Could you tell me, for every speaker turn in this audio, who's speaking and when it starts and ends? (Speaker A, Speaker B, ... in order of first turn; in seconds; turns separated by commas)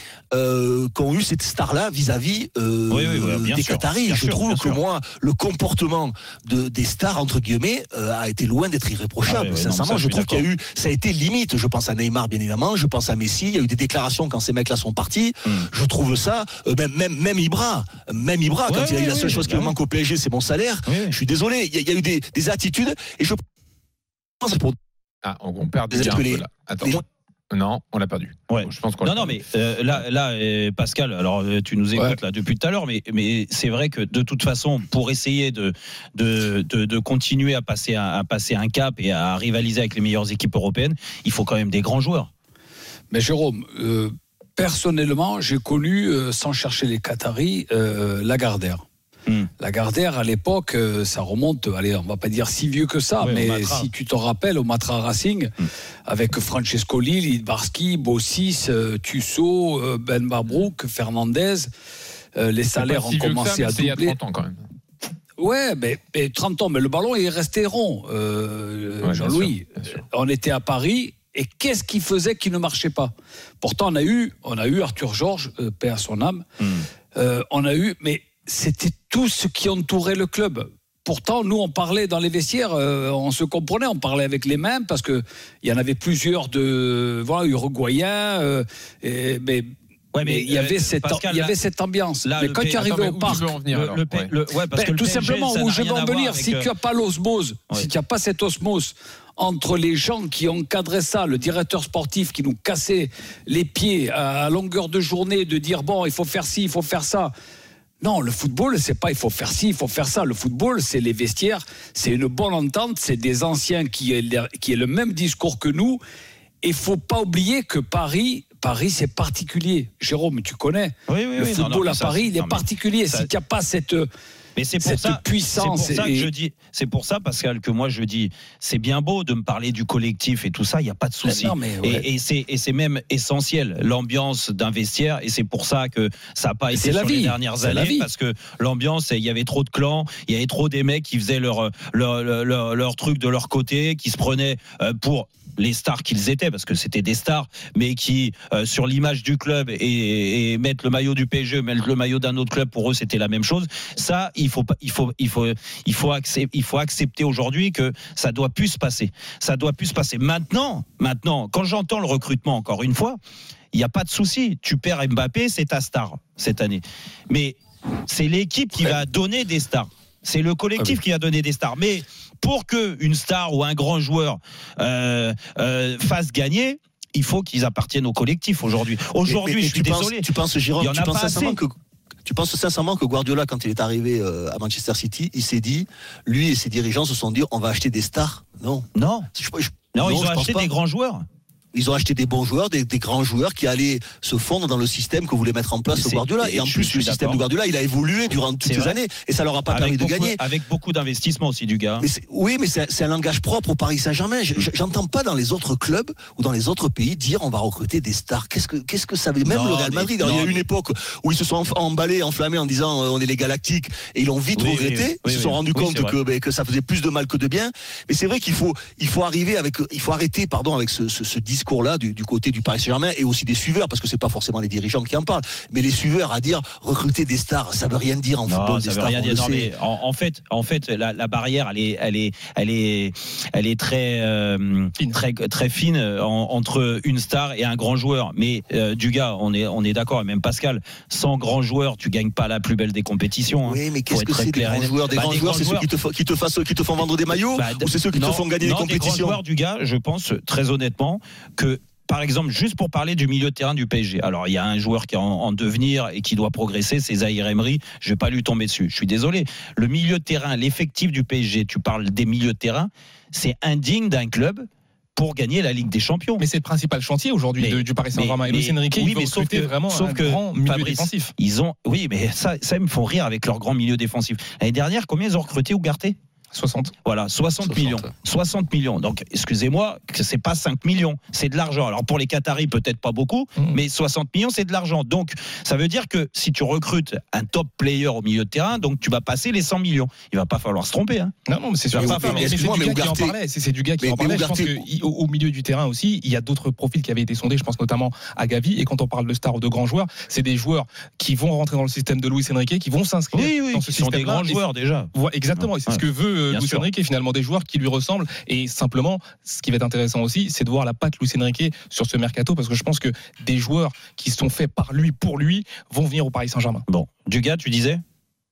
Speaker A: 0.3-23.4, Speaker B: 2.9-4.8, Speaker B: 9.3-10.4, Speaker B: 18.7-19.7, Speaker B: 20.9-21.1, Speaker A: 24.4-24.8, Speaker C: 25.2-29.4, Speaker A: 25.9-27.0, Speaker B: 28.5-42.3, Speaker D: 43.1-48.9, Speaker D: 49.6-55.5, Speaker B: 53.2-53.9, Speaker D: 56.1-61.7, Speaker D: 62.4-64.2, Speaker C: 62.8-64.6, Speaker D: 65.4-76.4, Speaker C: 69.0-70.0, Speaker B: 76.6-76.8, Speaker D: 77.2-93.5, Speaker B: 90.1-91.5, Speaker B: 92.2-96.7, Speaker C: 92.8-94.3, Speaker D: 94.7-107.3, Speaker D: 108.0-116.0, Speaker D: 116.6-124.1, Speaker B: 121.1-123.3, Speaker B: 124.6-163.2, Speaker D: 124.8-126.3, Speaker D: 131.2-132.1, Speaker D: 136.7-138.1, Speaker B: 163.7-180.2, Speaker A: 179.2-181.7, Speaker B: 180.8-181.6, Speaker A: 182.3-190.7, Speaker B: 189.0-189.3, Speaker B: 189.9-191.2, Speaker A: 191.7-200.4, Speaker B: 195.9-197.4, Speaker B: 198.6-199.0, Speaker B: 199.7-202.1, Speaker A: 202.0-229.7, Speaker B: 209.4-210.6, Speaker B: 214.6-216.2, Speaker B: 228.5-245.9, Speaker A: 243.7-249.4, Speaker B: 247.5-266.4, Speaker E: 266.4-271.3, Speaker B: 267.6-276.2, Speaker E: 276.5-276.9, Speaker B: 277.1-291.3, Speaker A: 277.7-278.0, Speaker E: 291.5-304.6, Speaker B: 291.9-292.5, Speaker A: 291.9-293.4, Speaker A: 294.0-294.8, Speaker B: 303.3-306.9, Speaker E: 305.1-316.9, Speaker B: 316.9-318.0